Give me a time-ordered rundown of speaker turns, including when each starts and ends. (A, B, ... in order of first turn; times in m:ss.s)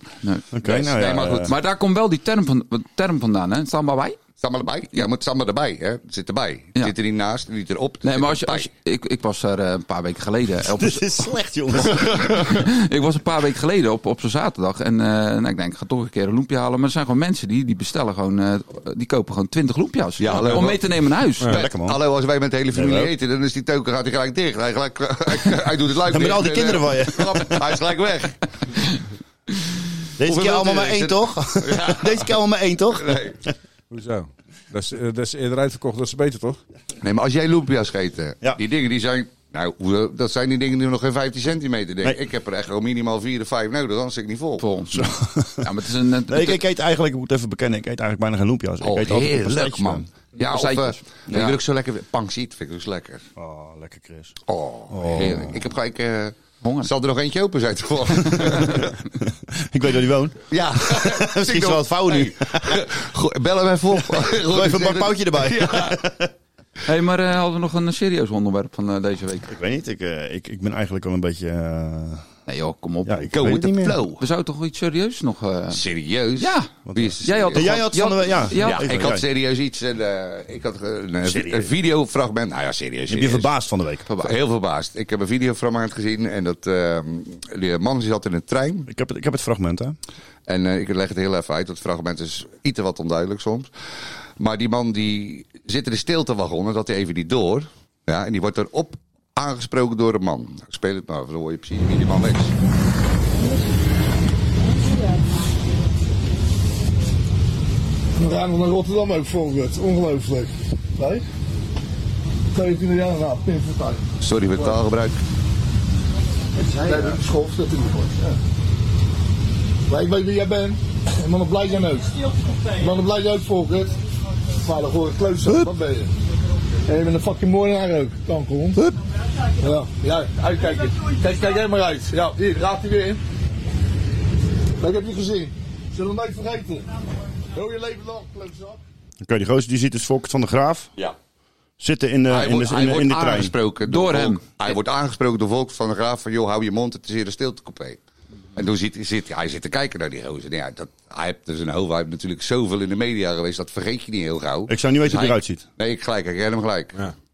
0:00.5-0:01.5 A
0:00.6-0:01.5 B
0:01.4-0:04.2 C
0:04.4-0:08.7 B
0:08.0-0:11.2 C
0:10.7-0:12.4 A
0:12.4-0:21.5 C
0:20.2-0:20.8 B
0:21.5-0:28.4 B
0:21.5-0:22.0 A
0:22.7-0:23.1 A
0:26.1-0:27.7 A
0:30.2-0:33.5 A
0:30.2-0:32.4 B
0:32.9-0:33.4 B
0:33.9-0:36.6 D
0:37.0-0:44.6 B
0:44.6-0:46.6 C
0:44.9-0:45.7 A
0:46.3-0:50.1 A
0:48.8-0:53.2 B
0:50.4-0:51.5 C
0:53.4-0:54.4 A
0:54.5-0:58.9 B
0:54.9-0:55.6 A
0:56.6-0:56.9 C
0:58.3-0:58.7 A
0:59.2-1:02.8 A
1:00.5-1:06.0 B
1:04.1-1:06.3 A
1:06.9-1:09.5 C
1:09.5-1:12.3 A
1:12.5-1:13.5 C
1:13.1-1:14.0 A
1:13.3-1:14.2 B
1:14.2-1:15.8 C
1:15.7-1:17.8 B
1:16.4-1:16.7 C
1:16.9-1:19.2 A
1:17.2-1:18.9 C
1:18.6-1:23.5 B
1:21.2-1:21.7 A
1:23.1-1:24.1 A
1:24.1-1:24.4 C
1:24.2-1:28.9 B
1:28.9-1:30.0 A
1:30.5-1:33.7 B
1:34.4-1:42.5 B
1:48.2-1:51.2 E
1:52.6-1:54.0 E
1:54.2-1:55.2 B
1:56.6-1:58.4 E
1:59.9-2:02.2 E
2:02.8-2:04.0 E
2:04.6-2:06.1 E
2:06.9-2:08.8 E
2:09.6-2:13.2 E
2:14.8-2:16.9 E
2:17.5-2:18.8 E
2:19.2-2:20.9 A
2:21.8-2:23.6 A
2:22.3-2:28.0 B
2:23.9-2:24.4 C
2:28.6-2:37.0 B
2:34.7-2:35.6 A